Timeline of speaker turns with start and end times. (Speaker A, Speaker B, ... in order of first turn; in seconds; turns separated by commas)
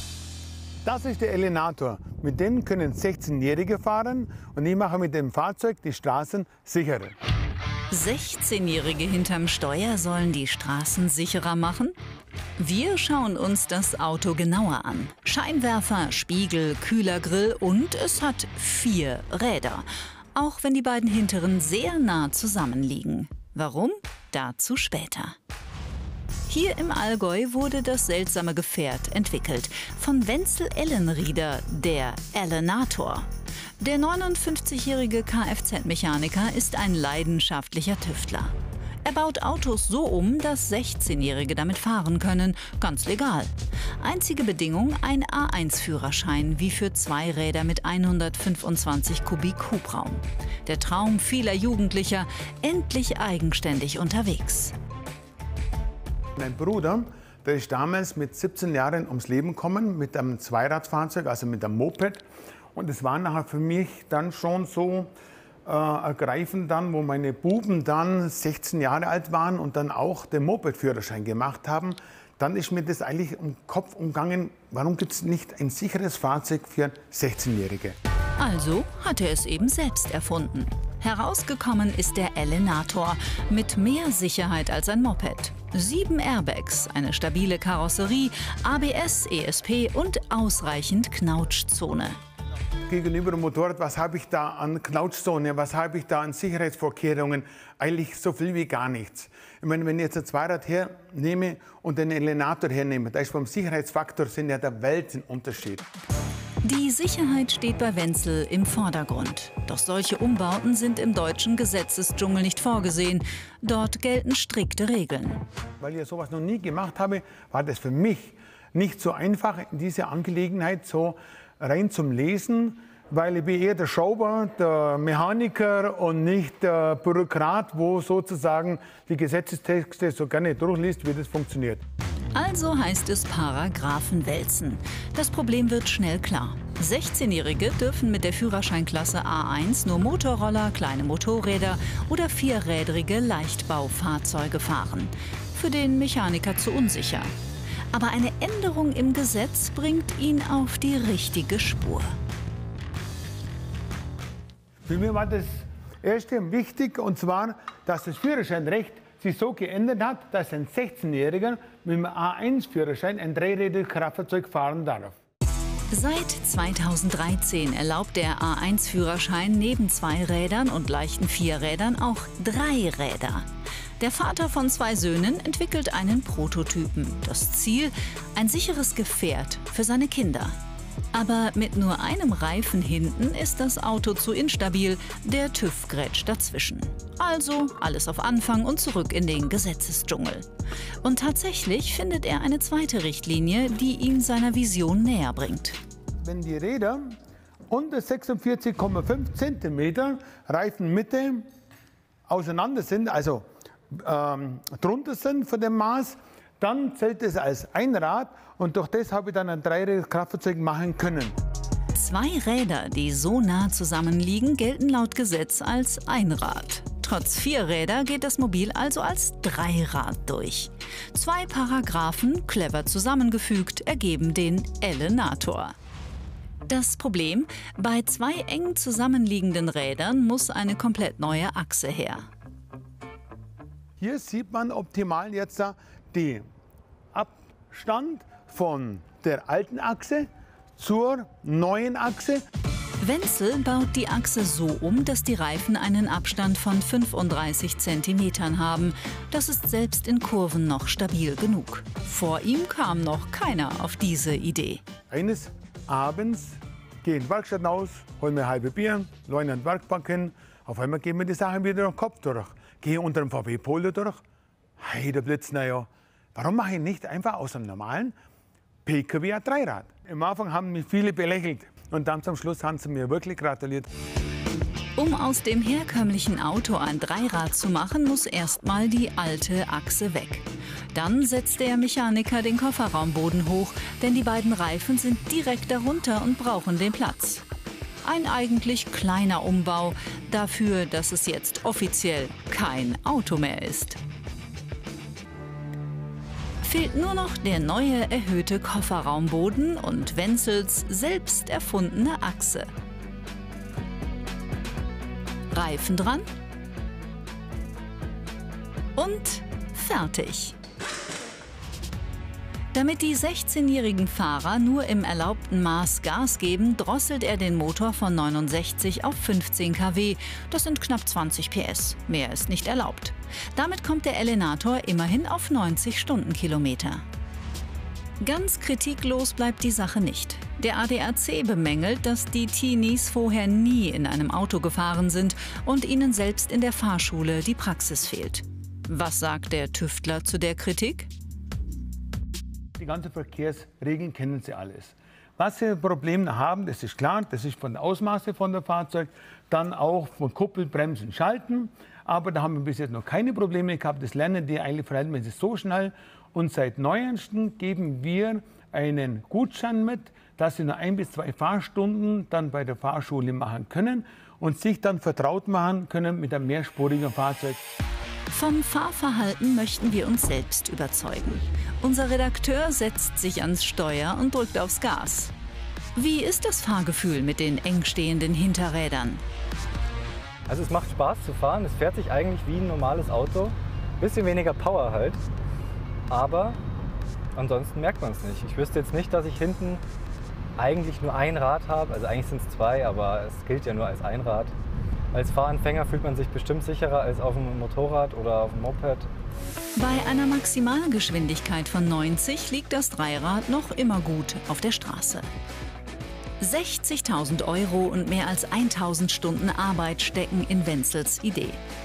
Speaker A: 0.8-7.2, Speaker B: 7.9-11.9, Speaker B: 12.6-25.4, Speaker B: 26.5-33.3, Speaker B: 33.8-38.5, Speaker B: 39.0-54.7, Speaker A: 56.4-62.2, Speaker A: 62.8-65.1, Speaker A: 65.7-78.0, Speaker B: 78.4-92.2, Speaker A: 92.9-105.9, Speaker B: 106.6-115.4, Speaker A: 115.8-131.8, Speaker B: 132.3-147.3, Speaker B: 147.9-152.1, Speaker A: 154.8-165.2, Speaker B: 165.9-173.5, Speaker B: 174.0-180.6, Speaker B: 181.1-190.5, Speaker B: 191.0-195.8, Speaker A: 196.2-197.2, Speaker A: 197.7-201.4, Speaker A: 202.3-211.3, Speaker B: 211.9-225.7, Speaker B: 226.7-232.3, Speaker A: 234.0-236.4, Speaker A: 237.1-242.4, Speaker B: 243.0-254.8, Speaker A: 255.1-264.2, Speaker A: 264.8-268.1, Speaker A: 268.9-273.9, Speaker B: 275.0-287.4, Speaker B: 288.0-294.0, Speaker B: 296.6-302.7, Speaker B: 305.5-306.3, Speaker B: 308.9-310.6, Speaker B: 312.7-327.0, Speaker B: 328.2-341.1, Speaker A: 342.8-367.6, Speaker B: 368.3-375.3, Speaker B: 375.9-379.2, Speaker C: 380.5-385.2, Speaker C: 386.1-386.6, Speaker C: 387.4-389.8, Speaker C: 390.6-394.5, Speaker C: 395.1-399.1, Speaker B: 399.8-405.3, Speaker B: 406.4-411.6